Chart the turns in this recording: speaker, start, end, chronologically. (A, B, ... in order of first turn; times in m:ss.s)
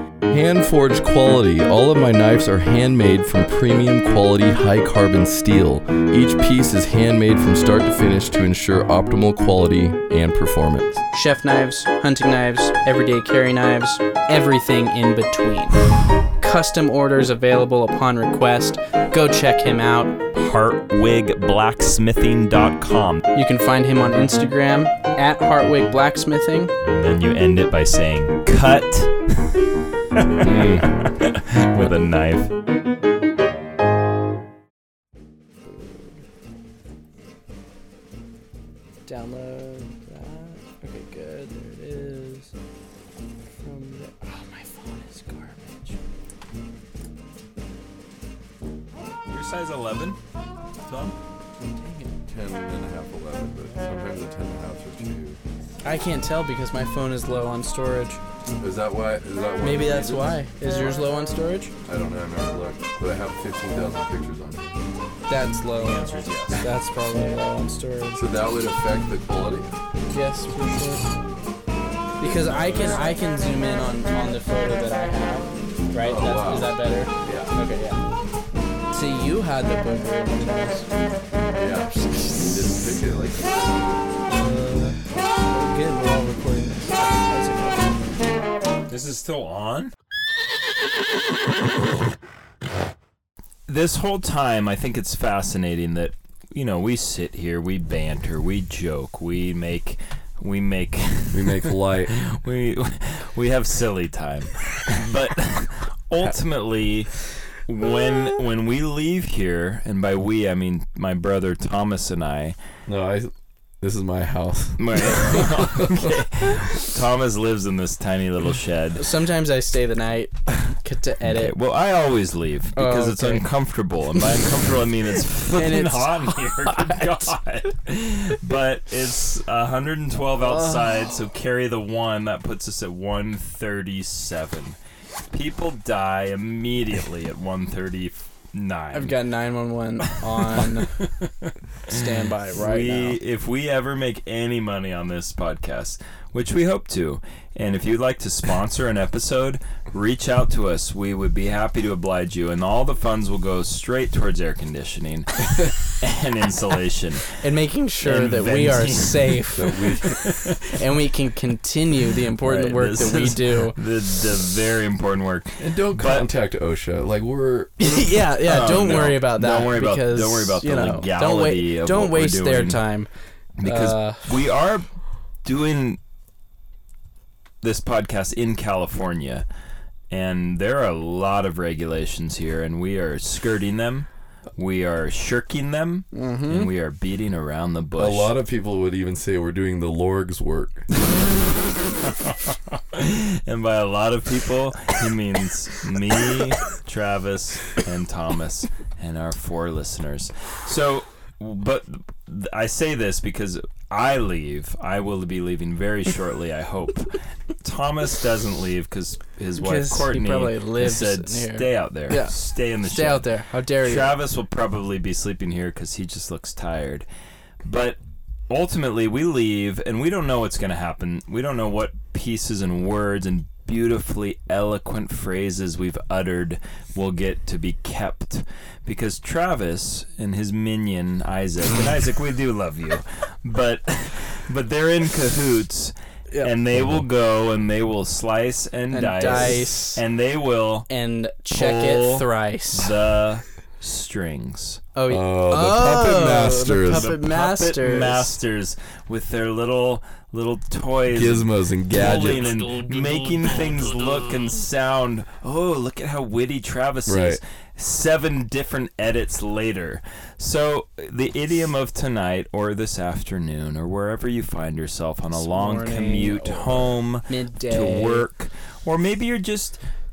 0:00.3-0:11.0 A
0:11.1-0:20.2 B
0:20.4-0:23.2 C
0:23.3-0:26.7 B
0:26.8-0:29.7 C
0:30.3-0:32.5 C
0:39.1-0:42.5 B
0:43.6-0:46.0 B
0:49.3-0:50.2 C
0:50.8-0:51.2 C
0:51.8-0:52.1 B
0:52.3-0:55.4 A
0:55.8-0:58.2 B
0:58.6-1:01.0 A
0:59.6-1:01.7 B
1:01.8-1:04.7 A
1:05.3-1:08.3 B
1:05.8-1:06.7 C
1:08.2-1:09.7 A
1:10.1-1:11.1 B
1:12.2-1:18.0 B
1:12.6-1:13.0 C
1:15.9-1:17.5 A
1:18.9-1:20.9 B
1:21.5-1:24.1 A
1:24.3-1:28.0 B
1:28.9-1:29.9 C
1:33.7-1:47.1 C
1:41.3-1:42.1 A
1:47.6-1:52.6 C
1:52.9-1:56.1 A
1:54.8-1:59.0 C
1:59.0-2:01.5 B
2:01.3-2:14.8 C
2:02.8-2:03.5 B
2:05.6-2:07.2 B
2:10.4-2:11.0 B
2:15.3-2:19.1 C
2:18.9-2:21.0 B
2:20.5-2:37.4 C
2:21.9-2:23.2 B
2:37.4-2:39.9 B
2:38.0-2:40.8 C
2:39.5-2:40.2 A
2:40.6-2:43.8 B
2:42.4-2:46.3 C
2:45.6-2:48.0 A
2:47.8-2:53.1 B
2:48.4-2:52.8 C
2:53.6-2:54.9 C
2:53.6-2:54.3 B
2:55.4-2:56.0 C
2:57.6-2:59.5 C
3:00.1-3:08.3 C
3:06.1-3:06.7 B
3:08.0-3:10.9 A
3:11.0-3:33.3 C
3:29.6-3:34.2 B
3:33.8-3:37.1 C
3:37.6-3:38.0 C
3:38.5-4:00.9 C
3:56.8-3:57.0 A
3:58.9-4:00.0 B
4:00.9-4:02.9 B
4:01.5-4:04.8 C
4:05.0-4:08.3 B
4:05.1-4:07.1 A
4:06.9-4:29.8 C
4:11.1-4:12.7 A
4:17.1-4:17.4 A
4:25.3-4:28.3 B